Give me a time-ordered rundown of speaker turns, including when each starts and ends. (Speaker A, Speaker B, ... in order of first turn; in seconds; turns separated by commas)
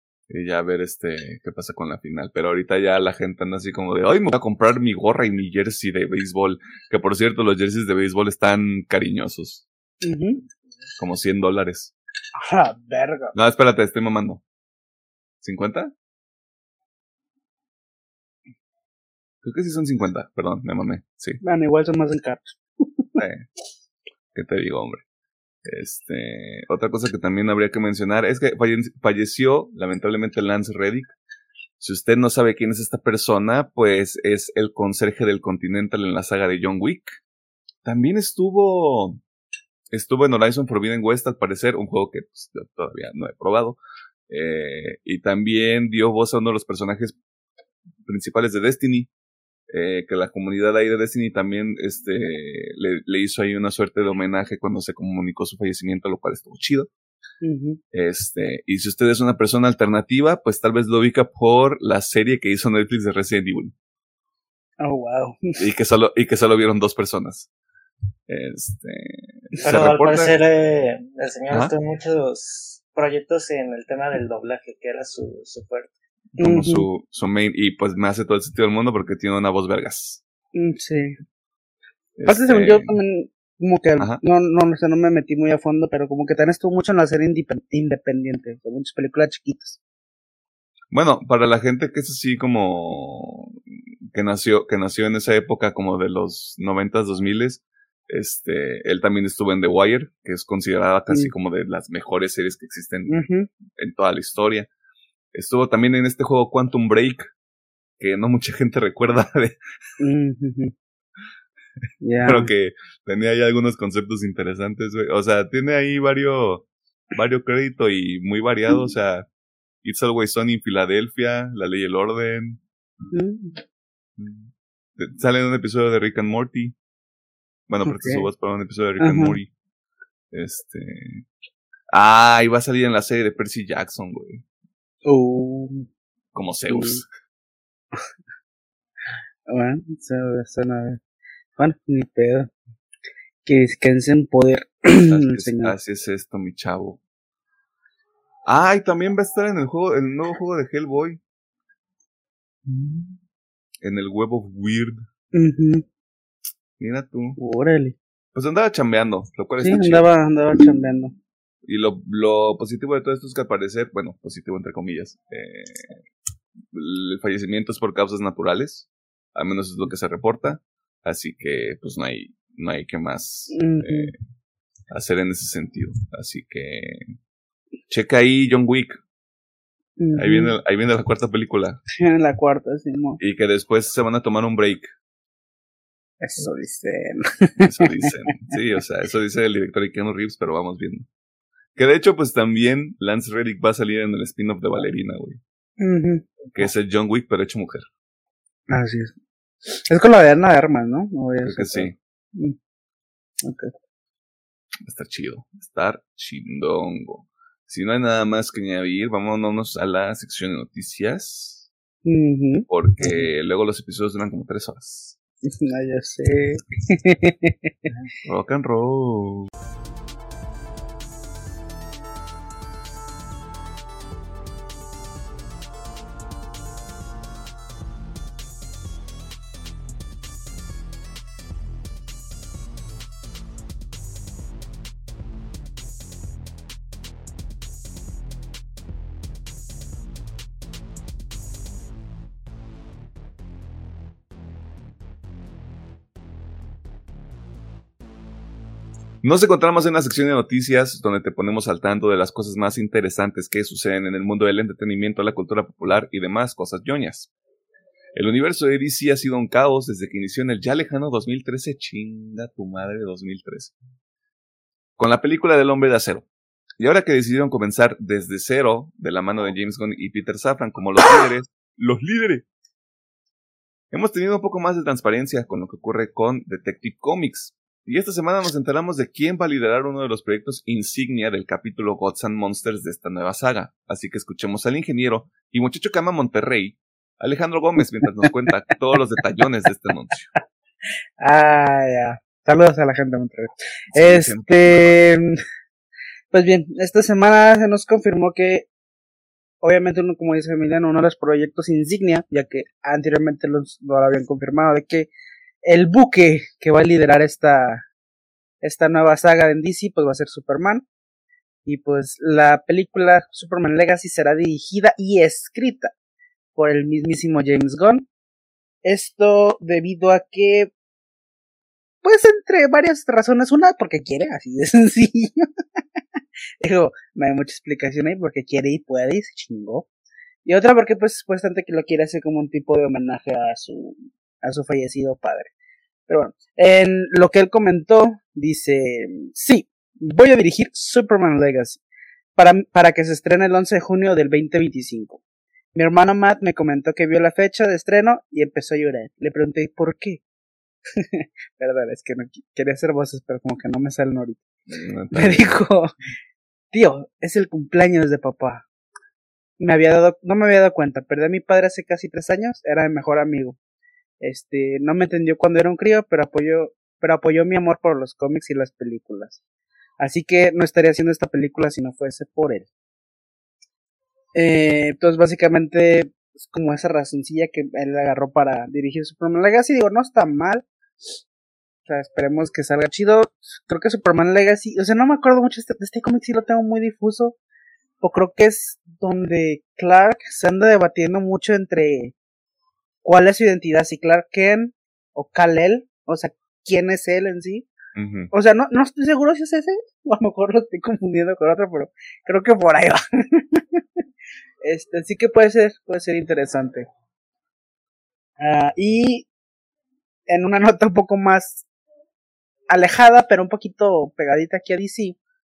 Speaker A: 0.3-9.7, Speaker B: 10.0-10.5, Speaker A: 11.0-11.9, Speaker B: 12.4-13.3, Speaker A: 13.3-14.4, Speaker A: 15.4-15.9, Speaker A: 19.4-21.4, Speaker B: 21.4-23.1, Speaker A: 23.2-23.5, Speaker A: 24.3-25.0, Speaker A: 25.6-31.1, Speaker A: 31.8-37.2, Speaker A: 37.8-39.2, Speaker A: 39.9-47.2, Speaker A: 48.1-49.1, Speaker A: 49.7-56.9, Speaker B: 57.4-57.8, Speaker A: 57.9-63.7, Speaker B: 64.8-65.4, Speaker A: 65.6-67.5, Speaker A: 68.3-70.3, Speaker C: 69.6-75.9, Speaker A: 76.3-80.2, Speaker B: 76.4-76.9, Speaker B: 80.5-81.2, Speaker A: 82.2-82.9, Speaker B: 82.3-89.8, Speaker A: 90.9-93.6, Speaker A: 94.1-103.2, Speaker B: 103.1-103.5, Speaker A: 103.8-104.7, Speaker A: 105.3-107.3, Speaker A: 108.0-109.6, Speaker B: 110.0-110.7, Speaker B: 112.0-112.5, Speaker A: 112.2-119.3, Speaker A: 119.8-122.6, Speaker B: 123.1-123.6, Speaker A: 124.2-126.8, Speaker A: 127.7-129.5, Speaker B: 127.9-128.3, Speaker B: 129.0-129.4, Speaker A: 130.3-131.2, Speaker A: 131.9-134.4, Speaker B: 135.1-135.9, Speaker A: 136.3-137.1, Speaker B: 136.7-137.0, Speaker B: 139.5-141.0, Speaker B: 141.6-142.5, Speaker B: 143.4-145.7, Speaker A: 145.1-147.0, Speaker A: 148.5-151.2, Speaker B: 152.7-153.1, Speaker A: 153.8-155.0, Speaker B: 155.3-155.8, Speaker A: 156.8-157.4, Speaker B: 157.4-158.0, Speaker A: 158.3-160.1, Speaker B: 159.6-161.1, Speaker A: 161.7-166.0, Speaker A: 166.7-174.2, Speaker B: 173.5-174.1, Speaker A: 174.9-177.1, Speaker A: 177.9-179.0, Speaker B: 180.0-180.6, Speaker A: 180.2-181.8, Speaker B: 182.0-183.2, Speaker A: 183.2-184.9, Speaker B: 186.2-188.3, Speaker A: 187.6-191.1, Speaker A: 191.8-195.4, Speaker B: 195.8-196.3, Speaker A: 196.6-197.9, Speaker B: 198.7-199.1, Speaker B: 199.7-202.6, Speaker A: 201.4-201.9, Speaker B: 203.4-203.7, Speaker A: 204.8-211.7, Speaker B: 212.1-213.3, Speaker A: 212.7-215.2, Speaker B: 215.5-217.6, Speaker A: 218.2-219.5, Speaker A: 249.2-257.3, Speaker A: 258.1-263.8, Speaker A: 265.0-266.3, Speaker A: 266.8-272.5, Speaker A: 273.9-290.3, Speaker B: 291.2-295.4, Speaker A: 293.9-294.9, Speaker B: 296.3-298.7, Speaker B: 299.6-305.1, Speaker B: 305.6-307.8, Speaker B: 308.6-310.9, Speaker B: 311.7-315.9, Speaker B: 316.6-318.1, Speaker B: 318.8-320.7, Speaker B: 322.0-325.5, Speaker B: 326.6-329.9, Speaker B: 330.4-335.5, Speaker B: 336.1-341.8, Speaker B: 342.4-345.2, Speaker B: 345.8-350.2, Speaker B: 351.0-354.4, Speaker A: 354.7-355.5, Speaker B: 355.1-355.9, Speaker B: 356.7-358.6, Speaker B: 359.6-363.6, Speaker B: 364.2-369.4, Speaker B: 370.0-372.7, Speaker B: 374.4-380.7, Speaker B: 381.9-387.4, Speaker B: 388.0-392.1, Speaker B: 393.0-397.7, Speaker A: 398.0-398.3, Speaker B: 398.3-403.8, Speaker B: 404.6-406.9, Speaker B: 408.4-409.3, Speaker B: 410.3-411.6, Speaker B: 412.7-415.2